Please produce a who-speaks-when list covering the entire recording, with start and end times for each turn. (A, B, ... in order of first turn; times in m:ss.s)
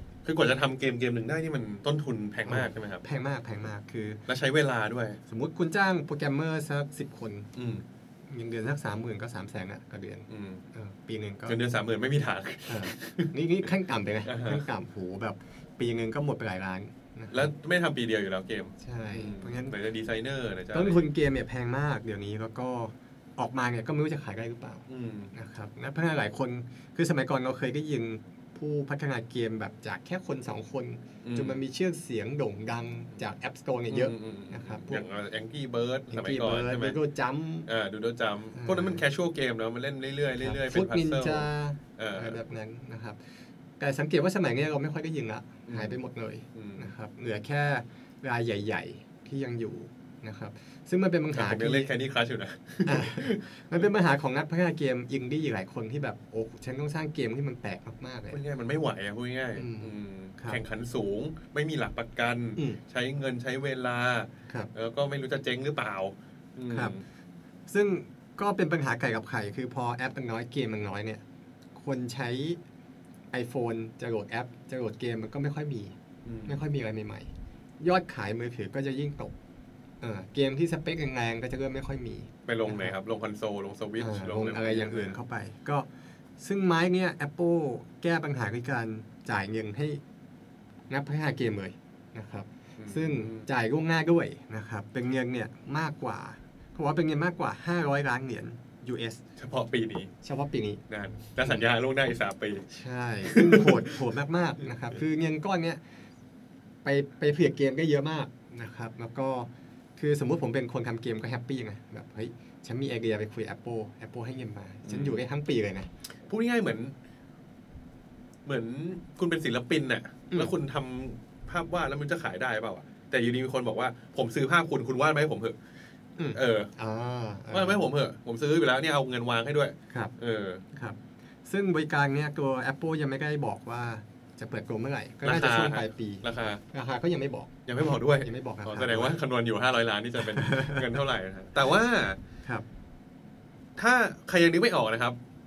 0:00.2-0:03.0 A
0:02.5-0:04.2 B
0:04.3-0:05.2 A
0:05.3-0:07.5 B
0:07.5-0:07.8 A
0:08.3-0:11.6 B
0:10.3-0:10.6 A
0:11.5-0:13.3 A
0:12.7-0:17.5 B
0:14.2-0:14.6 A
0:17.3-0:21.0 A
0:18.8-0:19.8 B
0:20.7-0:35.0 B
0:24.9-0:25.3 A
0:31.2-0:31.6 A
0:33.9-0:37.0 A
0:36.1-0:37.7 B
0:37.6-0:42.4 A
0:38.5-0:39.0 B
0:40.4-0:43.2 B
0:43.8-0:51.9 B
0:45.7-0:46.0 A
0:46.5-0:46.9 A
0:51.3-0:53.9 A
0:52.8-0:58.4 B
0:58.3-1:07.0 A
0:59.6-1:00.6 B
1:06.7-1:07.0 B
1:07.7-1:11.2 B
1:11.8-1:12.6 B
1:13.3-1:15.9 B
1:16.2-1:16.6 A
1:16.4-1:19.3 B
1:20.0-1:22.9 B
1:22.4-1:25.2 A
1:24.0-1:25.9 B
1:26.4-1:30.0 B
1:30.9-1:39.2 B
1:32.8-1:33.5 A
1:39.4-1:40.1 A
1:40.2-1:40.8 B
1:40.9-1:42.7 A
1:42.7-1:45.8 B
1:43.2-1:44.0 A
1:46.8-1:55.9 B
1:54.8-1:55.2 A
1:56.2-1:56.9 A
1:58.4-2:05.6 A
2:06.2-2:07.9 B
2:06.3-2:06.7 A
2:07.5-2:10.6 A
2:10.7-2:17.5 B
2:15.2-2:16.6 A
2:17.7-2:22.2 A
2:18.2-2:19.2 B
2:20.2-2:20.9 B
2:23.8-2:25.2 A